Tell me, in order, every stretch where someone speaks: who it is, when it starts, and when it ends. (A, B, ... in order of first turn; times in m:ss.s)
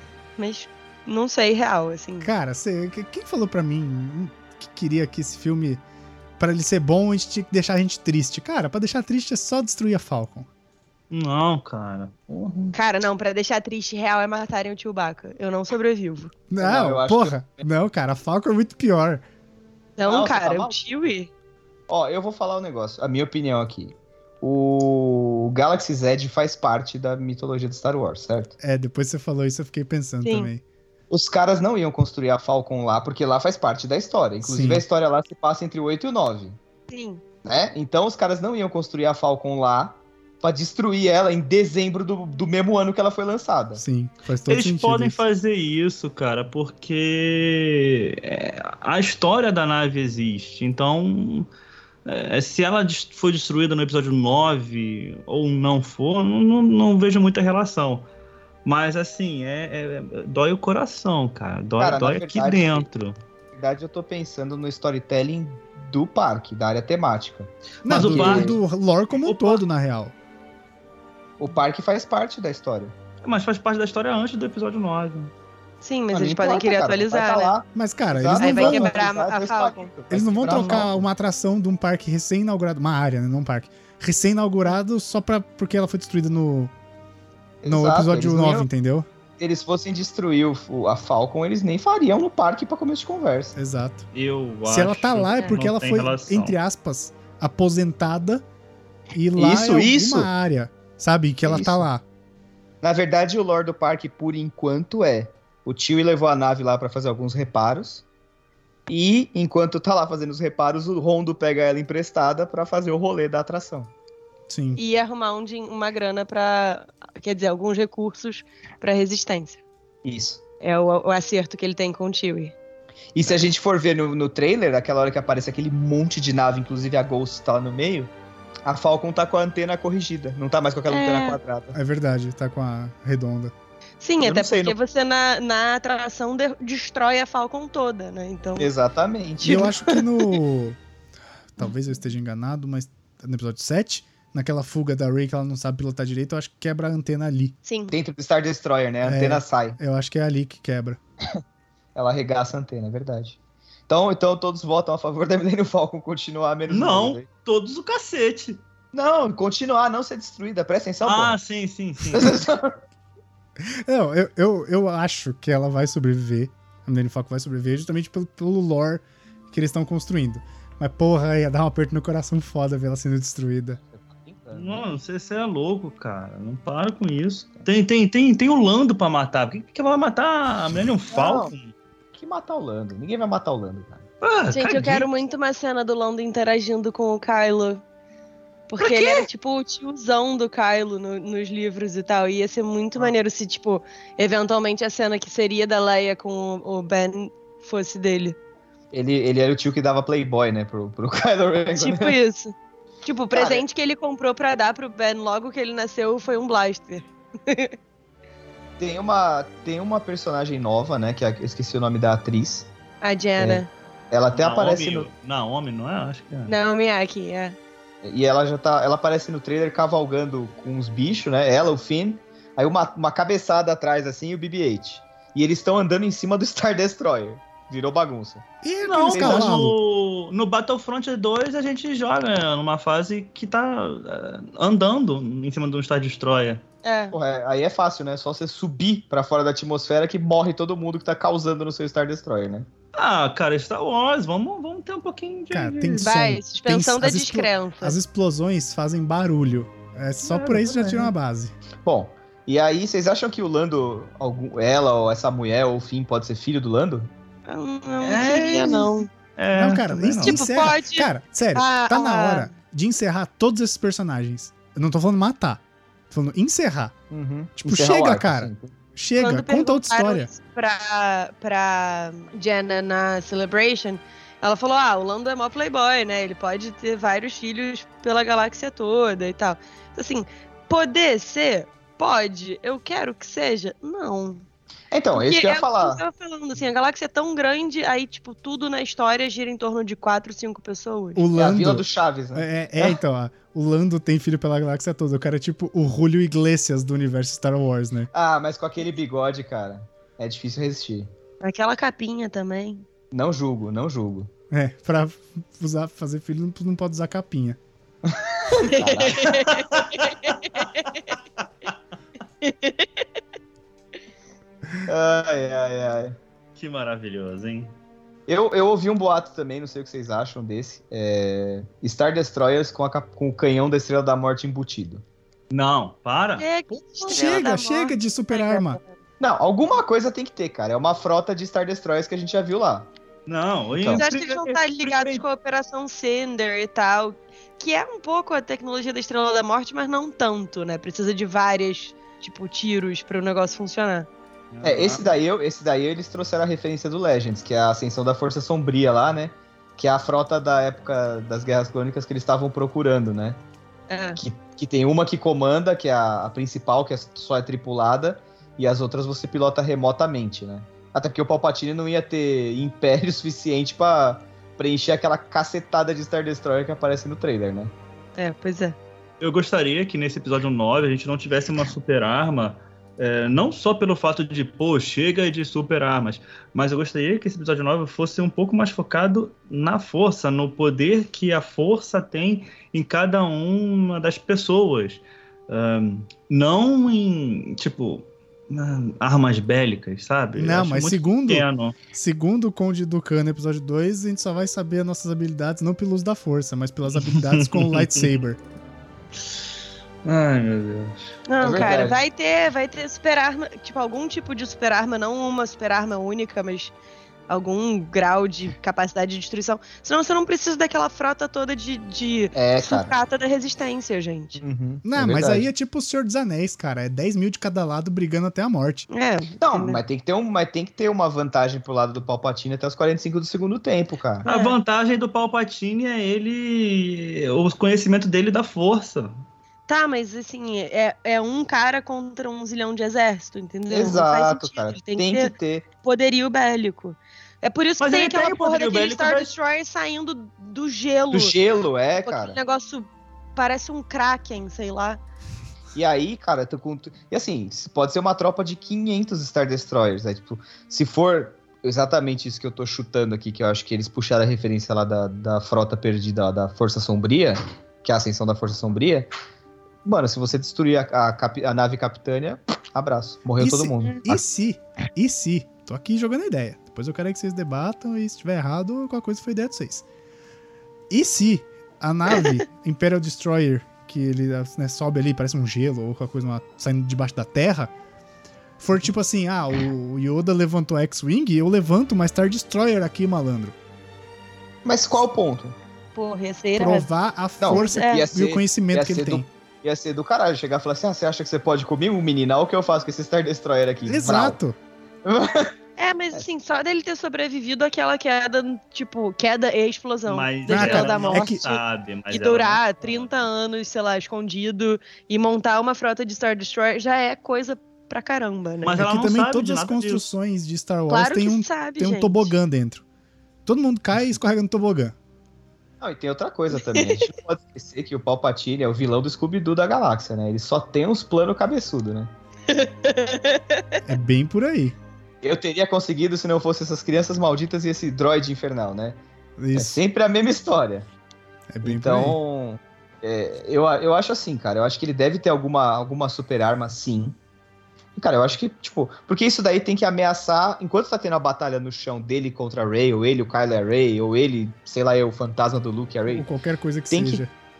0:00.4-0:02.3 A
0:02.2-0:05.8 B
0:06.4-0:10.5 B
0:11.1-0:12.8 C
0:12.7-0:16.3 A
0:16.5-0:19.2 B
0:16.6-0:17.7 D
0:20.0-0:21.3 A
0:20.1-0:20.8 D
0:21.9-0:28.6 D
0:28.6-0:30.6 B
0:30.2-0:30.5 A
0:31.1-0:36.6 D
0:34.4-0:34.8 B
0:36.9-0:37.2 A
0:37.4-0:43.8 D
0:43.8-0:45.2 B
0:44.5-0:51.5 C
0:52.1-0:58.1 C
0:58.6-1:03.2 C
1:01.8-1:02.9 D
1:03.5-1:08.6 D
1:07.8-1:08.6 C
1:07.8-1:10.1 B
1:09.2-1:09.6 C
1:11.4-1:12.9 D
1:13.2-1:15.3 C
1:15.8-1:17.5 A
1:16.1-1:21.1 D
1:17.7-1:19.0 B
1:18.3-1:19.9 A
1:20.1-1:26.7 B
1:20.5-1:20.8 C
1:27.6-1:28.7 D
1:27.6-1:29.1 B
1:29.4-1:33.6 D
1:33.6-1:34.1 B
1:34.1-1:36.6 C
1:34.7-1:38.4 B
1:39.1-1:42.0 B
1:39.4-1:40.3 D
1:41.4-1:41.8 D
1:42.8-1:48.0 D
1:48.9-1:53.9 D
1:54.5-1:54.8 B
1:54.8-1:59.6 A
2:00.0-2:00.4 D
2:00.6-2:02.5 A
2:03.2-2:08.1 D
2:08.6-2:11.8 D
2:10.9-2:11.4 A
2:11.7-2:13.5 B
2:14.0-2:18.7 A
2:14.2-2:14.7 D
2:18.6-2:19.7 D
2:19.4-2:20.0 A
2:19.4-2:20.8 B
2:21.5-2:27.6 B
2:27.6-2:27.9 A
2:27.9-2:29.8 D
2:29.0-2:31.0 B
2:31.9-2:37.3 D
2:36.7-2:38.6 C
2:38.9-2:41.4 D
2:41.0-2:42.3 C
2:42.1-2:42.8 D
2:43.7-2:53.8 B
2:53.8-2:54.8 D
2:54.5-3:01.7 C
3:01.1-3:01.5 D
3:02.1-3:04.1 D
3:04.2-3:05.1 C
3:04.5-3:07.8 A
3:08.7-3:18.4 A
3:08.8-3:09.3 C
3:18.9-3:22.2 D
3:21.7-3:27.7 A
3:23.3-3:23.6 D
3:28.8-3:32.7 D
3:33.0-3:33.7 A
3:33.4-3:35.1 D
3:34.3-3:36.6 C
3:36.5-3:37.6 A
3:38.0-3:48.4 D
3:48.6-3:49.8 B
3:48.8-3:56.6 C
3:49.1-3:49.6 D
3:56.8-3:57.2 A
3:57.1-4:02.7 D
4:02.9-4:06.1 C
4:05.5-4:11.5 B
4:06.0-4:08.0 A
4:10.2-4:11.1 C
4:11.8-4:17.1 D
4:17.5-4:19.1 A
4:18.0-4:20.5 C
4:19.6-4:26.9 B
4:20.2-4:22.5 A
4:27.1-4:28.7 D
4:27.6-4:30.3 B
4:29.2-4:44.4 A
4:44.9-4:46.0 D
4:45.1-4:51.2 A
4:51.2-4:58.1 B
4:51.4-4:53.0 D
4:58.1-5:01.1 D
5:01.4-5:02.8 A
5:03.1-5:04.3 D
5:04.5-5:07.6 B
5:08.1-5:09.5 D
5:08.6-5:10.9 A
5:09.3-5:11.7 C
5:12.4-5:13.0 A
5:14.8-5:16.2 D
5:16.6-5:17.7 C
5:18.3-5:25.0 D
5:25.5-5:26.5 C
5:26.4-5:28.9 A
5:27.0-5:28.8 B
5:29.2-5:32.9 D
5:33.3-5:35.2 C
5:33.8-5:34.0 D
5:33.9-5:44.1 A
5:44.5-5:45.1 C
5:44.6-5:53.4 D
5:53.9-5:54.2 A
5:54.2-6:07.7 D
6:08.2-6:08.8 A
6:09.2-6:31.8 C
6:30.4-6:38.4 B
6:36.9-6:38.1 C
6:40.0-6:41.1 C
6:41.3-6:46.7 A
6:41.4-6:42.0 D
6:47.3-6:54.4 A
6:52.4-6:52.9 D
6:54.4-6:55.5 D
6:54.8-6:58.9 B
6:58.9-6:59.8 A
6:59.4-7:04.3 D
7:04.2-7:09.2 C
7:04.2-7:04.6 A
7:09.7-7:21.4 A
7:13.7-7:15.7 D
7:17.8-7:19.3 C
7:21.1-7:22.4 D
7:22.0-7:25.0 A
7:25.7-7:39.1 D
7:39.8-7:44.2 D
7:43.4-7:49.8 B
7:50.9-7:57.7 B
7:58.6-8:03.6 B
8:04.6-8:05.6 D
8:05.9-8:06.9 A
8:06.6-8:09.3 B
8:07.4-8:14.4 D
8:07.5-8:08.1 A
8:13.8-8:14.6 B
8:15.0-8:15.5 D
8:15.8-8:21.6 A
8:20.1-8:22.6 C
8:20.5-8:21.5 B
8:22.1-8:28.8 A
8:28.6-8:30.0 C
8:28.8-8:32.8 B
8:30.9-8:32.3 A
8:33.4-8:34.9 B
8:35.8-8:42.1 D
8:36.5-8:37.0 A
8:42.5-8:43.8 A
8:43.8-8:44.8 B
8:45.2-8:49.0 D
8:49.4-8:49.7 B
8:49.6-8:50.9 D
8:51.5-8:52.2 B
8:51.6-8:57.2 D
8:58.0-9:06.3 D
9:06.1-9:07.3 B
9:06.9-9:07.2 D